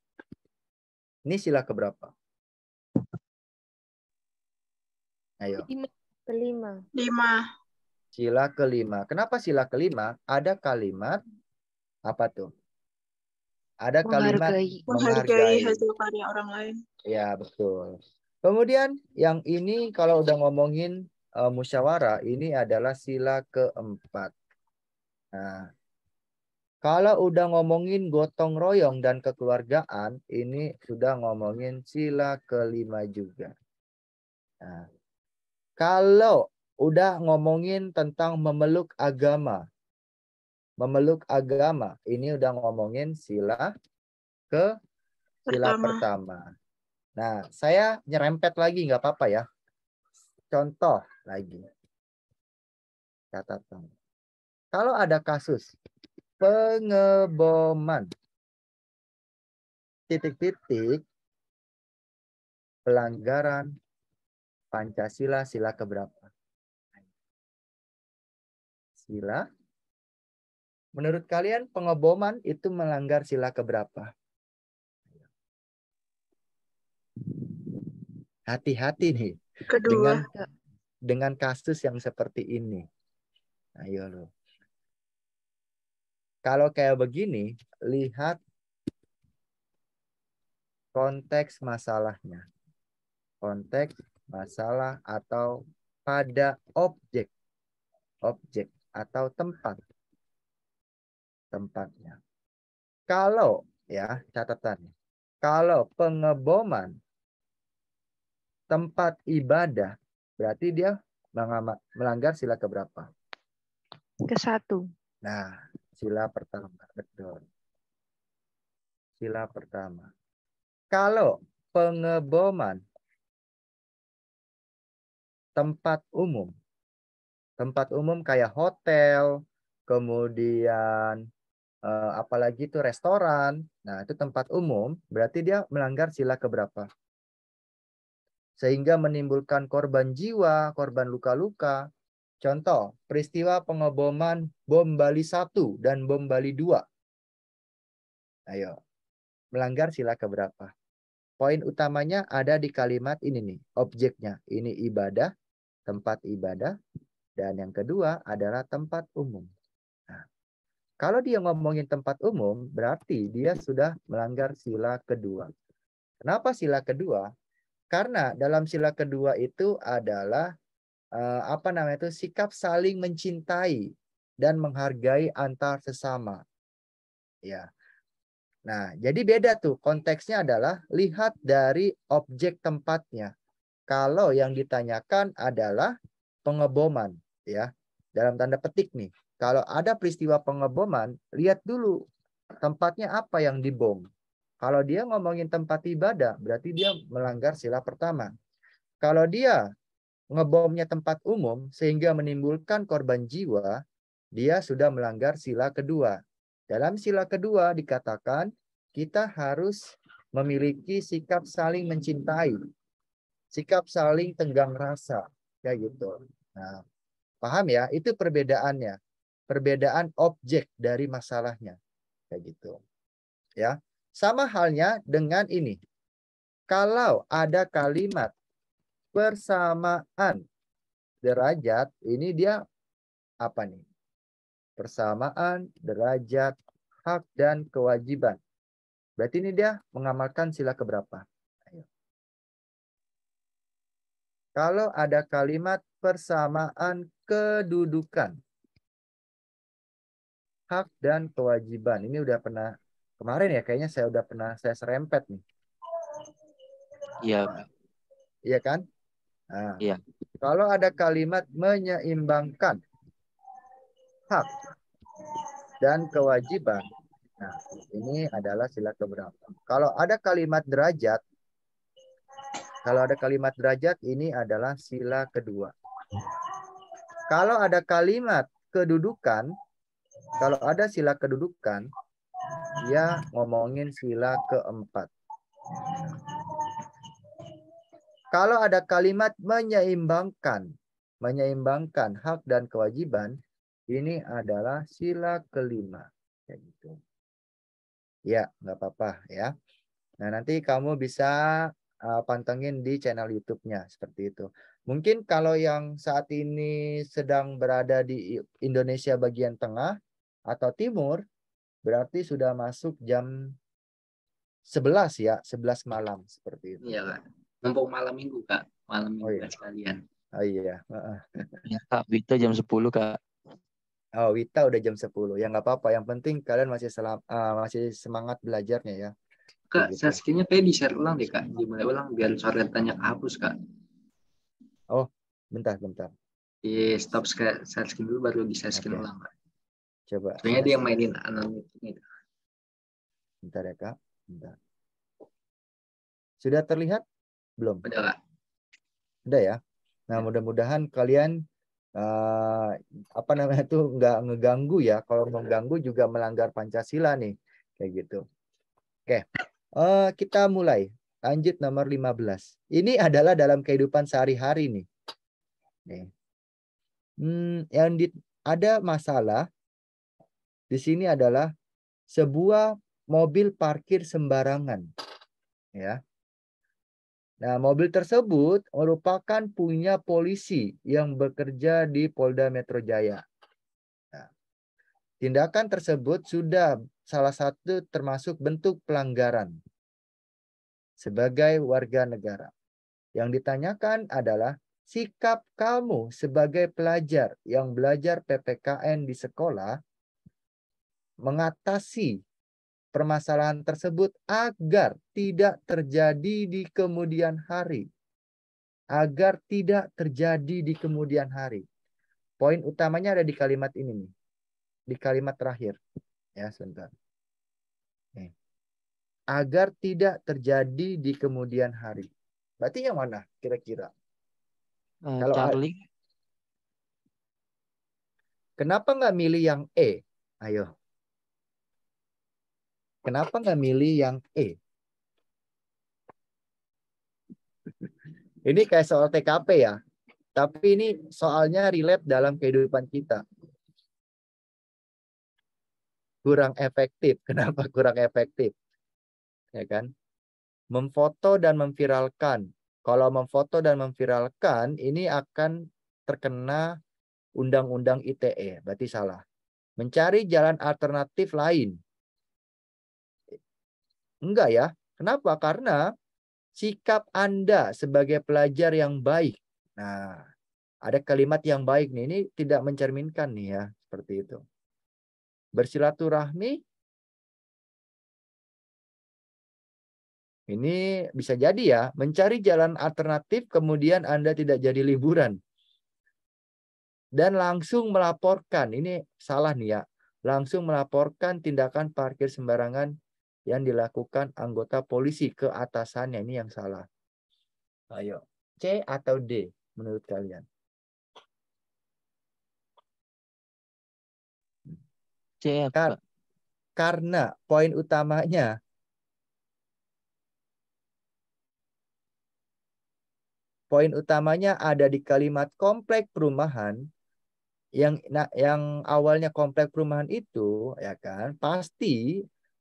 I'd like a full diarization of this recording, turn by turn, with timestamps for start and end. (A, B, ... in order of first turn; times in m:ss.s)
0:01.3-0:02.1 A
0:05.4-0:05.7 A
0:05.7-0:06.8 B
0:07.0-0:07.4 C
0:08.2-0:11.2 A
0:12.1-0:12.5 A
0:13.8-0:15.8 A
0:14.0-0:14.8 B
0:14.9-0:16.8 C
0:17.0-0:24.3 A
0:25.3-0:25.7 A
0:26.8-0:33.5 A
0:35.8-0:39.6 A
0:40.8-0:43.7 A
0:45.5-0:46.0 C
0:45.5-0:46.4 A
0:47.2-0:49.4 A
0:50.5-0:51.6 A
0:53.3-0:53.9 A
0:54.7-0:55.6 A
0:56.4-0:58.1 A
1:00.1-1:01.0 A
1:02.9-1:03.7 A
1:04.7-1:06.3 A
1:09.0-1:09.4 A
1:11.0-1:14.1 A
1:18.5-1:20.2 A
1:19.7-1:20.2 C
1:21.1-1:22.8 A
1:23.8-1:24.3 A
1:26.4-1:28.4 A
1:30.9-1:32.4 A
1:33.4-1:35.5 A
1:36.1-1:37.3 A
1:38.2-1:39.8 A
1:41.5-1:42.2 A
1:43.1-1:44.9 A
1:45.4-1:46.9 A
1:48.7-1:53.1 A
1:54.3-1:54.8 B
1:55.2-1:57.4 A
1:59.2-2:00.1 A
2:00.9-2:02.8 A
2:05.6-2:06.5 A
2:07.6-2:09.3 A
2:09.9-2:11.2 A
2:11.9-2:16.9 A
2:18.6-2:21.8 A
2:22.4-2:26.8 A
2:28.5-2:28.8 A
2:29.5-2:30.7 A
2:31.4-2:35.3 A
2:35.9-2:36.7 A
2:37.4-2:39.5 A
2:41.0-2:45.5 A
2:46.2-2:47.3 A
2:47.9-2:50.5 A
2:51.2-2:53.8 A
2:54.4-2:56.4 A
2:58.7-3:03.3 A
3:03.9-3:05.9 A
3:06.4-3:12.0 A
3:12.6-3:14.0 A
3:14.6-3:18.3 A
3:19.0-3:19.6 A
3:20.3-3:23.8 A
3:24.4-3:26.2 A
3:26.7-3:29.8 A
3:30.4-3:32.6 A
3:33.5-3:36.8 A
3:37.4-3:39.0 A
3:39.5-3:41.8 A
3:42.3-3:42.8 A
3:43.6-3:45.8 A
3:46.7-3:48.3 A
3:49.1-3:50.4 A
3:51.2-3:52.6 A
3:53.4-3:53.8 A
3:54.8-3:56.5 A
3:57.0-3:58.4 A
3:59.2-4:01.8 A
4:04.6-4:08.3 A
4:10.7-4:15.4 A
4:17.2-4:17.6 D
4:18.5-4:18.8 A
4:19.5-4:19.8 A
4:20.4-4:22.8 A
4:24.3-4:24.6 A
4:25.8-4:31.2 A
4:32.8-4:35.7 A
4:37.3-4:39.5 A
4:40.4-4:41.9 A
4:42.8-4:45.1 A
4:48.3-4:50.7 A
4:51.2-4:53.4 A
4:53.9-4:57.0 A
4:58.3-4:59.5 A
5:00.2-5:01.4 A
5:02.1-5:09.9 A
5:10.5-5:11.2 A
5:11.8-5:13.3 A
5:14.7-5:17.0 A
5:16.8-5:20.0 E
5:19.2-5:19.5 A
5:20.4-5:21.4 A
5:21.7-5:23.2 D
5:24.2-5:29.1 A
5:29.7-5:33.5 E
5:29.7-5:30.2 A
5:34.9-5:36.1 A
5:36.6-5:39.3 E
5:38.7-5:39.0 A
5:40.1-5:40.9 A
5:40.4-5:42.0 E
5:43.4-5:44.6 A
5:46.4-5:47.0 A
5:47.8-5:48.2 E
5:49.3-5:49.6 A
5:50.1-5:51.3 A
5:52.0-5:58.2 A
5:59.8-6:04.8 A
6:07.2-6:09.4 A
6:10.7-6:11.5 A
6:12.1-6:14.8 A
6:17.4-6:23.2 A
6:25.2-6:29.5 A
6:31.0-6:32.5 A
6:33.2-6:39.7 A
6:41.2-6:42.2 A
6:42.9-6:47.8 A
6:48.9-6:51.6 A
6:52.4-6:54.1 A
6:54.9-6:55.8 A
6:56.4-6:56.9 A
6:59.3-7:02.1 A
7:02.6-7:03.9 A
7:05.1-7:05.8 D
7:05.2-7:05.6 A
7:08.6-7:10.7 A
7:13.0-7:14.5 A
7:18.4-7:19.8 A
7:20.4-7:23.2 A
7:26.2-7:28.5 A
7:29.5-7:29.9 A
7:30.7-7:35.5 A
7:36.1-7:36.6 A
7:37.4-7:39.2 A
7:39.8-7:41.8 A
7:44.3-7:45.8 A
7:46.6-7:50.2 A
7:50.8-7:54.4 A
7:55.6-7:56.6 A
8:00.5-8:05.4 A
8:07.2-8:12.9 A
8:13.5-8:16.8 A
8:17.9-8:20.4 A
8:25.4-8:26.0 D
8:26.8-8:28.5 A
8:33.7-8:36.8 A
8:37.8-8:42.0 A